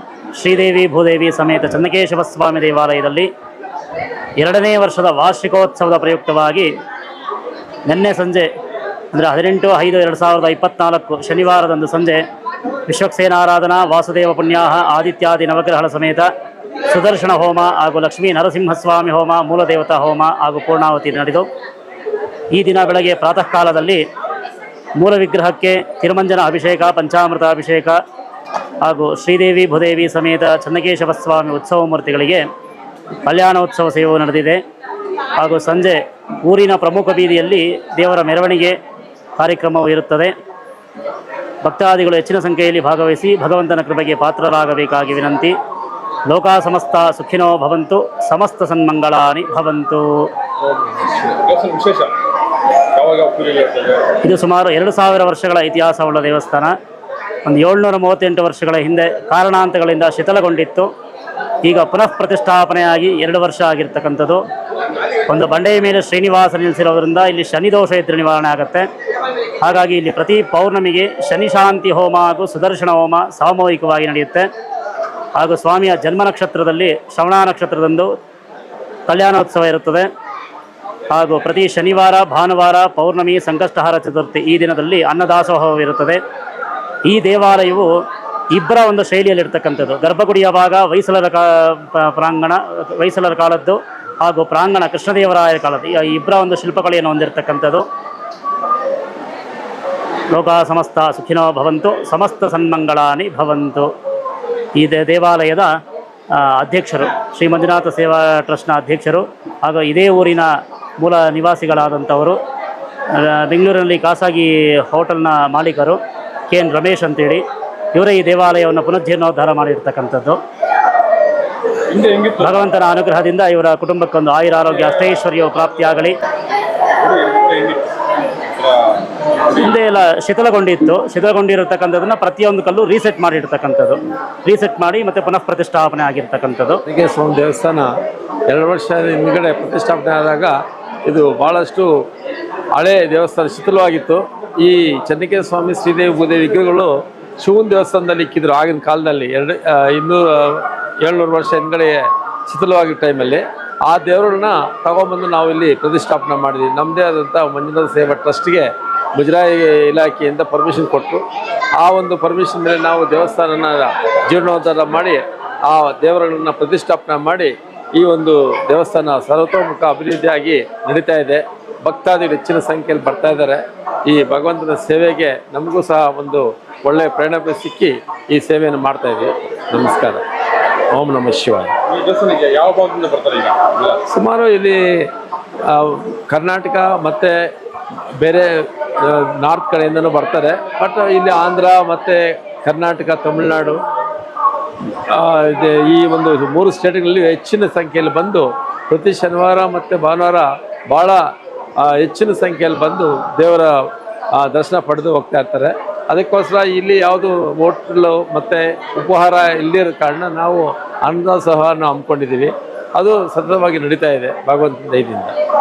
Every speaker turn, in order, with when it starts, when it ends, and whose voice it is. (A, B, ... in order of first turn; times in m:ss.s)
0:00.4-0:03.3 A
0:04.4-0:06.7 A
0:07.9-0:08.5 A
0:09.1-0:12.2 A
0:12.9-0:16.3 A
0:16.9-0:21.5 A
0:22.5-0:24.0 A
0:25.0-0:28.0 A
0:28.8-0:32.5 A
0:33.2-0:34.6 A
0:35.4-0:38.8 A
0:39.4-0:40.3 A
0:41.6-0:45.6 A
0:46.3-0:50.3 A
0:50.7-0:52.2 B
0:52.9-0:54.2 B
0:54.2-0:56.8 A
0:57.4-1:00.9 A
1:01.6-1:04.4 A
1:05.3-1:08.9 A
1:09.6-1:14.5 A
1:15.3-1:18.1 A
1:19.1-1:20.1 A
1:21.1-1:26.2 A
1:27.1-1:27.9 A
1:28.5-1:37.9 A
1:40.3-1:43.9 A
1:44.8-1:45.7 A
1:46.3-1:52.4 A
1:53.1-2:00.4 A
2:01.9-2:02.4 B
2:02.2-2:06.2 A
2:07.0-2:07.9 B
2:08.6-2:09.0 B
2:09.5-2:16.8 A
2:16.9-2:17.9 C
2:18.5-2:21.9 C
2:22.7-2:41.3 C
2:41.8-3:00.2 C
3:00.9-3:01.8 C
3:01.9-3:04.0 B
3:04.0-3:05.1 C
3:05.6-3:07.4 C
3:08.1-3:13.8 C
3:15.1-3:21.2 C
3:21.8-3:35.4 C